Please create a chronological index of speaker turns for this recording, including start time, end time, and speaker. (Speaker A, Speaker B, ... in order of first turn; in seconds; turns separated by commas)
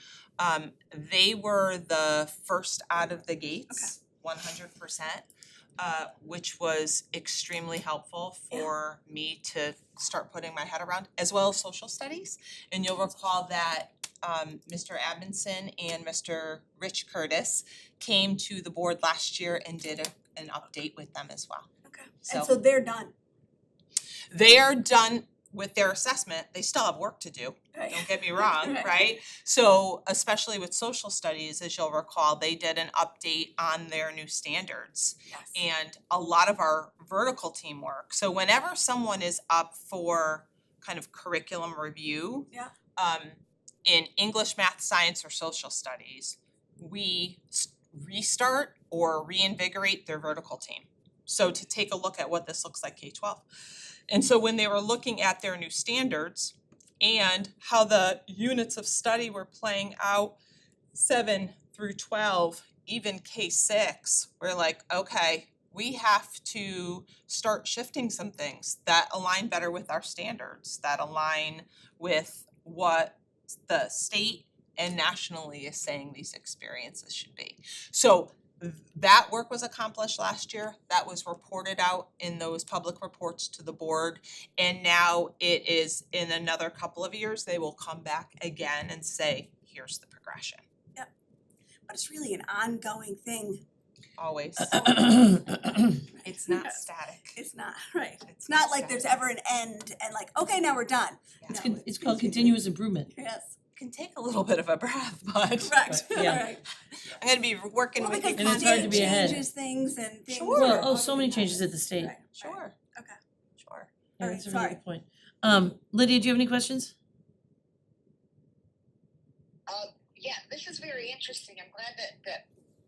Speaker A: 0.4-5.2, Speaker A: 5.8-21.7, Speaker B: 21.8-23.1, Speaker A: 22.3-22.5, Speaker A: 24.3-53.5, Speaker B: 27.8-28.9, Speaker B: 35.3-35.6, Speaker A: 54.1-60.3, Speaker A: 60.9-90.6, Speaker B: 91.9-93.6, Speaker A: 94.2-94.9, Speaker C: 94.7-96.0, Speaker B: 96.1-96.8, Speaker A: 96.2-97.4, Speaker B: 97.3-102.6, Speaker A: 98.2-99.0, Speaker C: 101.5-103.1, Speaker B: 103.1-103.5, Speaker A: 103.8-106.4, Speaker B: 105.6-106.6, Speaker C: 105.9-106.5, Speaker A: 107.2-109.2, Speaker B: 108.0-113.2, Speaker C: 108.3-109.4, Speaker A: 110.3-110.9, Speaker C: 110.5-112.2, Speaker A: 112.3-112.8, Speaker A: 113.6-113.9, Speaker C: 114.2-116.9, Speaker B: 114.2-114.8, Speaker D: 119.7-122.5